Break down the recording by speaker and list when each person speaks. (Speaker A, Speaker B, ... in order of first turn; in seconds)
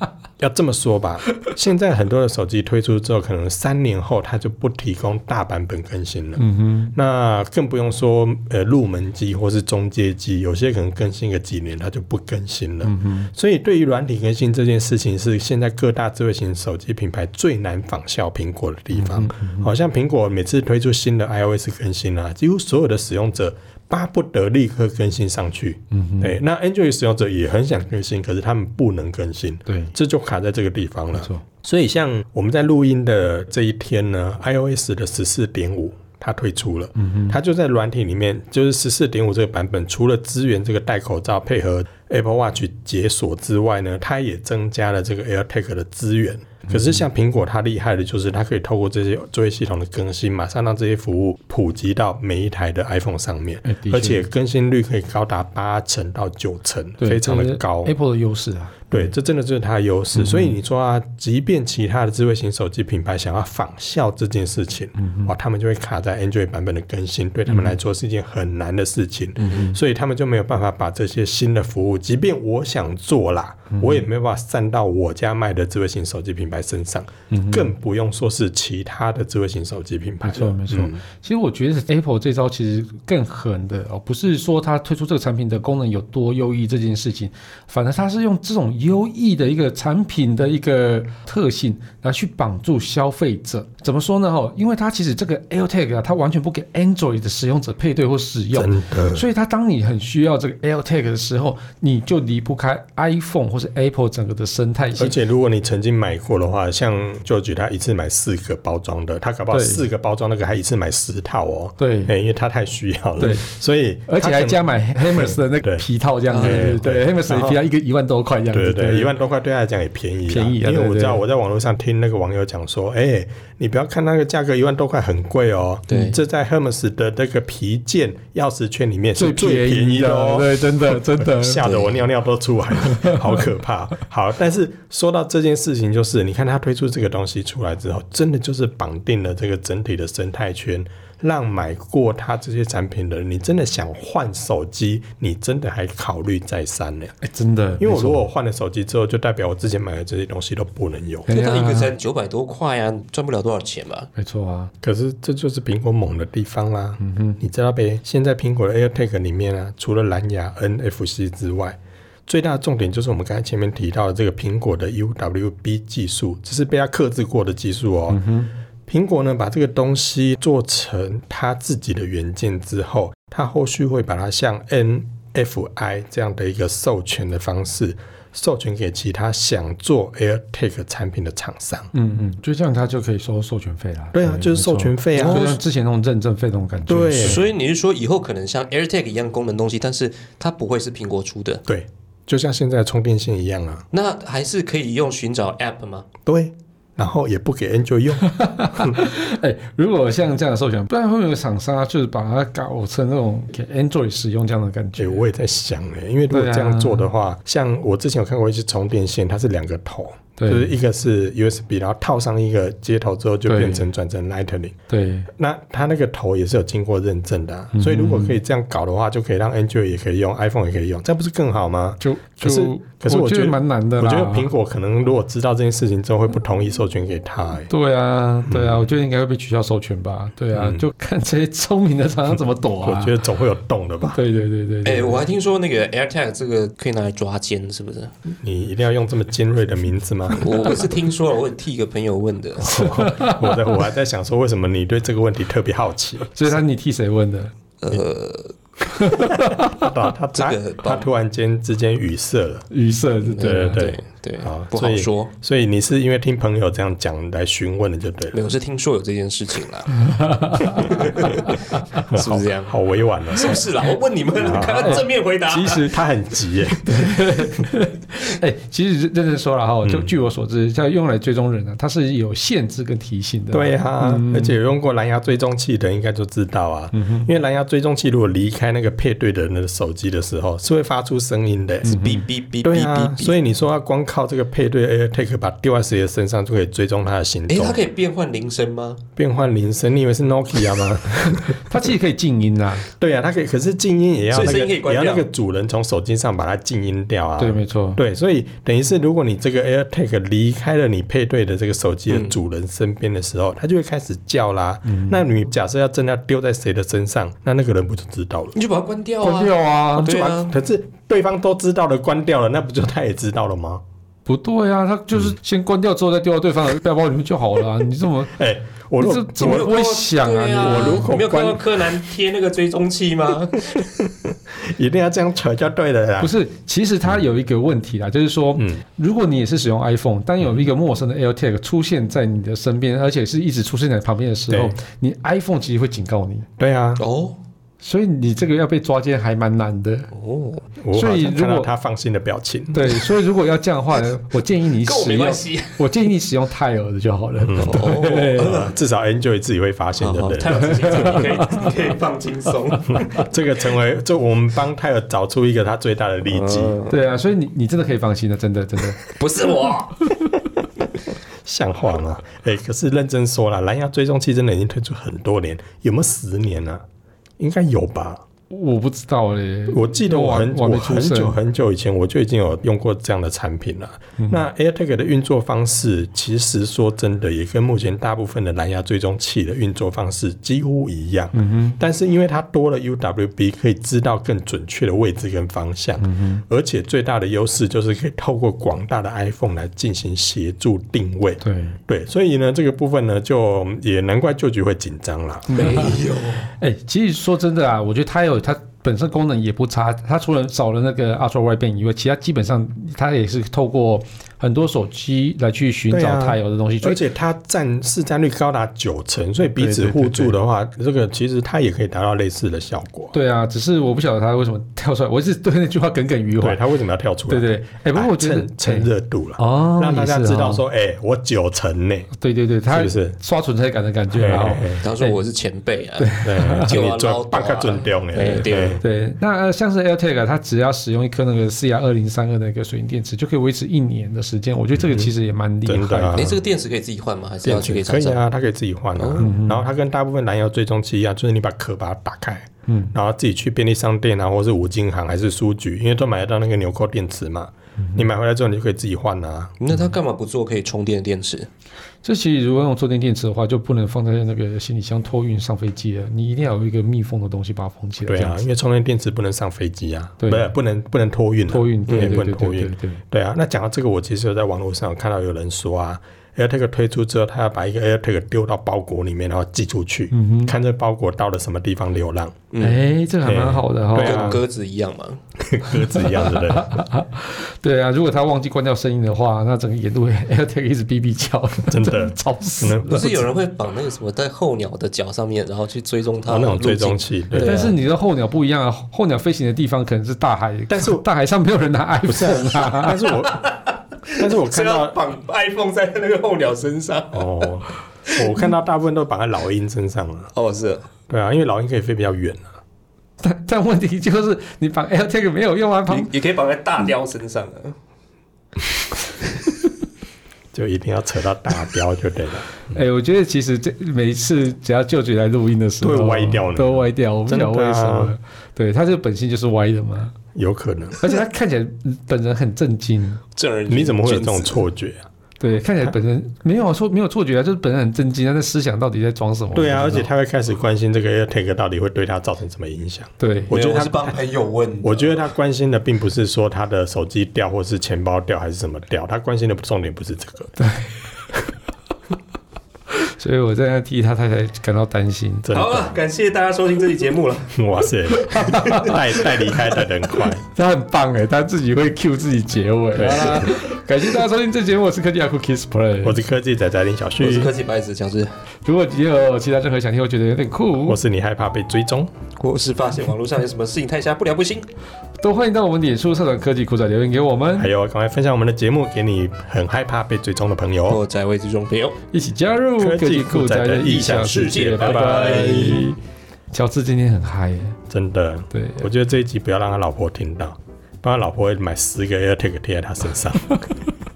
Speaker A: 0.4-57.9, 58.9-81.0, 98.5-99.2, 105.0-115.9, 116.4-117.6, 118.5-147.2, 147.8-151.3, 154.8-168.2, 168.9-181.9, 184.1-185.6, 186.9-187.4, 191.7-193.9, 196.3-199.0, 205.0-214.8, 215.3-227.7, 228.5-228.9, 230.5-230.9, 232.8-234.2, 238.3-240.8, 242.6-246.4, 249.2-252.7, 253.4-258.4, 262.1-263.6, 264.4-267.6, 269.8-270.1, 273.5-281.9, 282.6-287.8, 289.2-291.6, 293.0-308.6, 310.0-313.8, 318.3-319.7, 320.6-321.9, 323.6-326.4, 328.6-328.8, 334.5-334.8, 336.6-337.0, 340.8-343.0, 347.4-351.2, 352.9-356.8, 361.4-366.8, 367.4-368.2, 369.7-396.0, 405.9-413.1, 416.4-422.1, 422.7-423.2, 424.1-424.9, 426.2-428.8, 434.8-435.1, 435.7-436.4, 437.4-449.6, 458.1-472.5, 473.2-474.4, 475.4-476.8, 481.6-483.2, 486.3-487.7, 490.7-491.0, 492.1-493.4, 494.1-495.0, 497.1-500.3, 501.1-502.6, 510.5-512.8, 515.8-518.1, 520.4-521.2, 523.7-525.1, 529.5-534.1, 534.8-540.5, 545.5-546.0, 547.5-550.4, 553.0-553.6, 556.0-557.5, 560.9-562.1, 567.6-571.0, 572.8-575.8, 577.9-583.6
Speaker B: 6.4-6.9, 12.8-13.3, 18.9-19.7, 25.9-26.4, 29.7-29.9, 31.2-31.4, 37.0-37.4, 53.6-54.2, 57.0-59.1, 60.1-60.5, 65.0-65.3, 67.5-67.8, 69.4-69.8, 73.7-74.0, 77.3-77.7, 80.2-105.2, 109.5-109.8, 111.8-112.1, 113.2-113.5, 114.1-119.1, 120.3-121.2, 129.2-131.7, 132.8-133.4, 147.2-148.2, 151.3-151.9, 154.2-154.7, 157.0-157.4, 168.1-168.5, 181.9-187.4, 198.2-205.2, 206.3-207.1, 210.4-210.7, 213.5-213.8, 214.9-215.3, 217.7-218.4, 222.0-224.5, 227.7-233.2, 234.1-235.2, 242.7-243.7, 246.3-247.5, 248.9-249.9, 252.7-253.8, 260.0-262.0, 264.7-265.9, 266.8-274.6, 276.9-277.3, 281.9-282.2, 291.6-292.9, 297.4-298.0, 304.9-305.2, 309.2-310.2, 314.3-318.4, 319.0-321.1, 326.2-336.5, 337.8-340.1, 340.9-341.7, 342.7-348.6, 350.6-351.7, 352.9-353.2, 356.9-359.1, 368.5-371.4, 381.3-381.8, 386.0-386.4, 391.4-391.8, 395.5-396.0, 396.6-407.0, 409.6-410.4, 413.1-416.6, 417.3-420.6, 422.2-425.2, 426.0-426.8, 428.3-436.2, 439.2-439.6, 442.7-442.9, 452.0-458.4, 460.2-460.5, 461.5-463.0, 470.1-470.5, 472.6-474.4, 475.9-483.1, 487.4-493.1, 503.2-506.1, 512.7-520.2, 521.0-523.2, 525.4-530.1, 533.2-533.5, 540.6-541.0, 543.0-545.5, 548.2-549.0, 550.5-556.2, 558.6-561.0, 565.2-567.7, 572.1-576.0, 576.5-577.8, 578.5-578.9, 583.5-583.7
Speaker C: 116.3-116.8, 125.9-126.2, 131.6-132.1, 151.3-154.1, 185.2-185.6, 187.2-191.6, 193.9-196.1, 234.8-238.1, 240.4-242.8, 247.8-248.6, 250.3-251.1, 253.3-255.3, 258.3-260.1, 260.6-262.8, 263.3-266.0, 281.9-283.4, 287.5-289.0, 294.3-295.3, 302.1-302.4, 308.6-310.6, 319.4-323.9, 337.0-337.4, 340.1-340.6, 344.8-345.9, 347.6-348.7, 350.0-353.0, 356.3-357.0, 359.0-360.1, 395.5-396.5, 424.8-428.8, 436.1-438.2, 439.0-439.3, 449.6-451.5, 461.9-462.2, 472.5-472.8, 474.0-475.2, 482.9-487.8, 493.2-498.4, 500.4-500.9, 505.9-507.8, 523.4-524.6, 533.5-535.2, 545.5-547.6, 548.5-549.5, 557.2-558.3, 562.4-564.7, 570.9-572.0, 574.1-575.8